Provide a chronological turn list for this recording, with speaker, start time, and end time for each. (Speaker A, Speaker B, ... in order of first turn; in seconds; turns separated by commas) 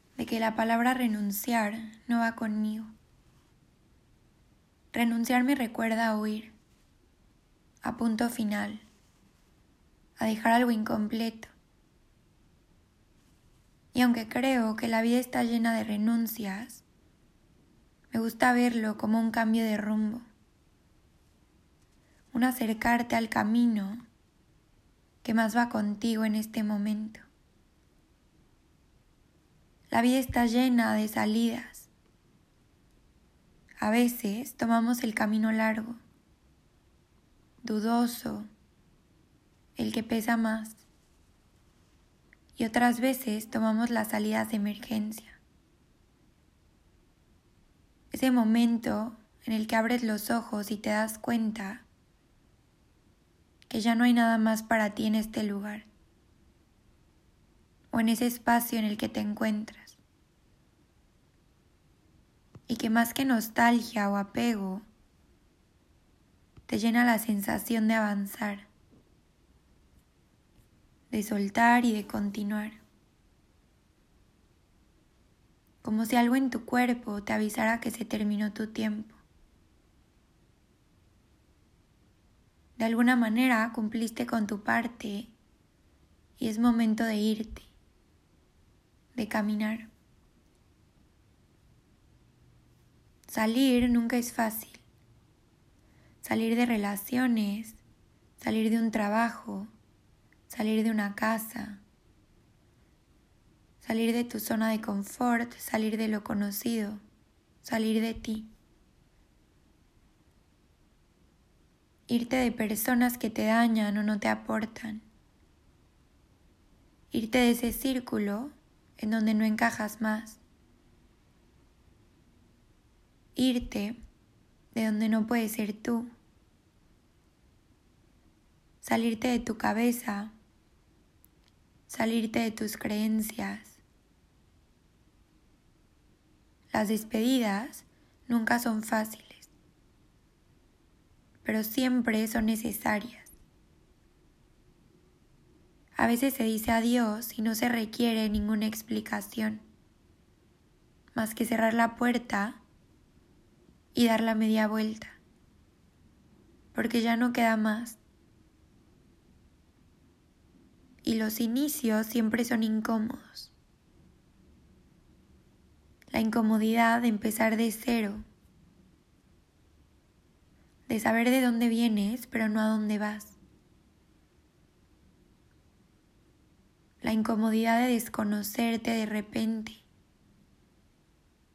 Speaker A: 0.2-2.9, Speaker A: 4.9-6.5, Speaker A: 7.8-8.8, Speaker A: 10.2-11.5, Speaker A: 13.9-16.8, Speaker A: 18.1-20.3, Speaker A: 22.3-24.0, Speaker A: 25.2-27.2, Speaker A: 29.9-31.9, Speaker A: 33.8-36.0, Speaker A: 37.6-38.5, Speaker A: 39.8-40.8, Speaker A: 42.5-45.4, Speaker A: 48.1-51.8, Speaker A: 53.7-55.9, Speaker A: 57.9-60.0, Speaker A: 62.7-64.8, Speaker A: 66.7-68.7, Speaker A: 71.1-72.8, Speaker A: 75.8-79.2, Speaker A: 82.8-85.3, Speaker A: 86.4-87.7, Speaker A: 89.1-89.9, Speaker A: 93.3-94.8, Speaker A: 96.2-97.8, Speaker A: 98.4-99.7, Speaker A: 100.5-101.8, Speaker A: 103.8-107.0, Speaker A: 107.6-108.5, Speaker A: 112.1-115.0, Speaker A: 117.1-120.4, Speaker A: 123.3-124.0, Speaker A: 124.7-126.1, Speaker A: 128.8-130.3, Speaker A: 131.9-133.8, Speaker A: 136.7-139.5, Speaker A: 141.4-143.3, Speaker A: 145.9-149.6, Speaker A: 151.1-152.6, Speaker A: 153.9-155.2, Speaker A: 156.7-158.0, Speaker A: 161.0-163.5, Speaker A: 166.1-168.2, Speaker A: 170.9-173.4, Speaker A: 177.0-179.8